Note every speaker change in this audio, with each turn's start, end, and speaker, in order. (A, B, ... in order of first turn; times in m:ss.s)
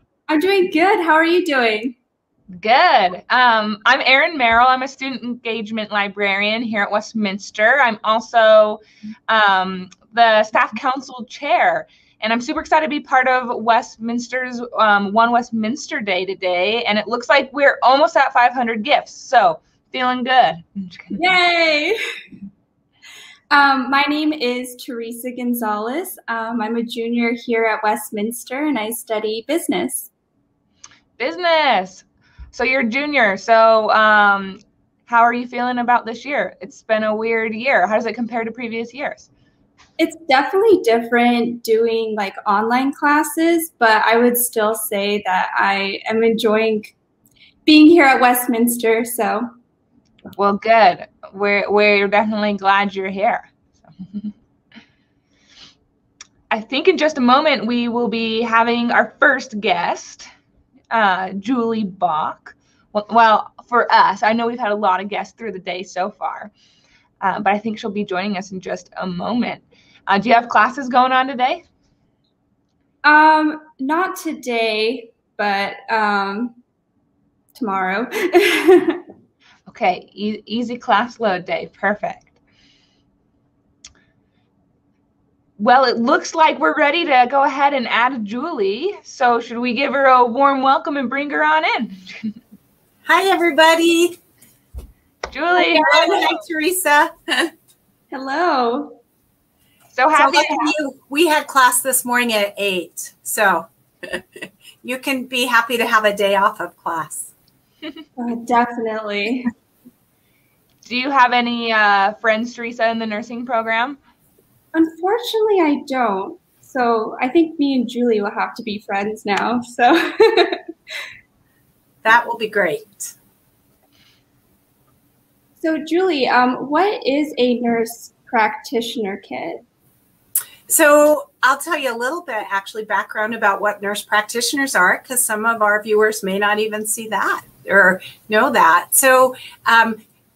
0:00.3-0:01.9 A
0:02.5-0:21.3 B
0:21.1-0:22.0 A
0:23.5-0:30.1 A
0:31.2-0:39.3 B
0:40.0-0:46.9 A
0:47.6-0:49.5 A
0:50.4-0:53.5 B
0:56.5-1:00.3 B
1:00.9-1:06.5 B
1:07.2-1:11.6 B
1:13.0-1:16.6 A
1:17.5-1:19.0 A
1:19.7-1:22.3 B
1:25.6-1:32.4 B
1:33.0-1:34.2 C
1:35.3-1:36.1 B
1:35.7-1:37.5 C
1:38.1-1:39.0 A
1:39.9-1:40.7 B
1:40.1-1:47.3 C
1:48.2-1:49.5 A
1:50.8-1:54.0 B
1:54.7-2:00.6 A
2:02.0-2:03.1 C
2:05.6-2:09.6 A
2:10.7-2:20.0 C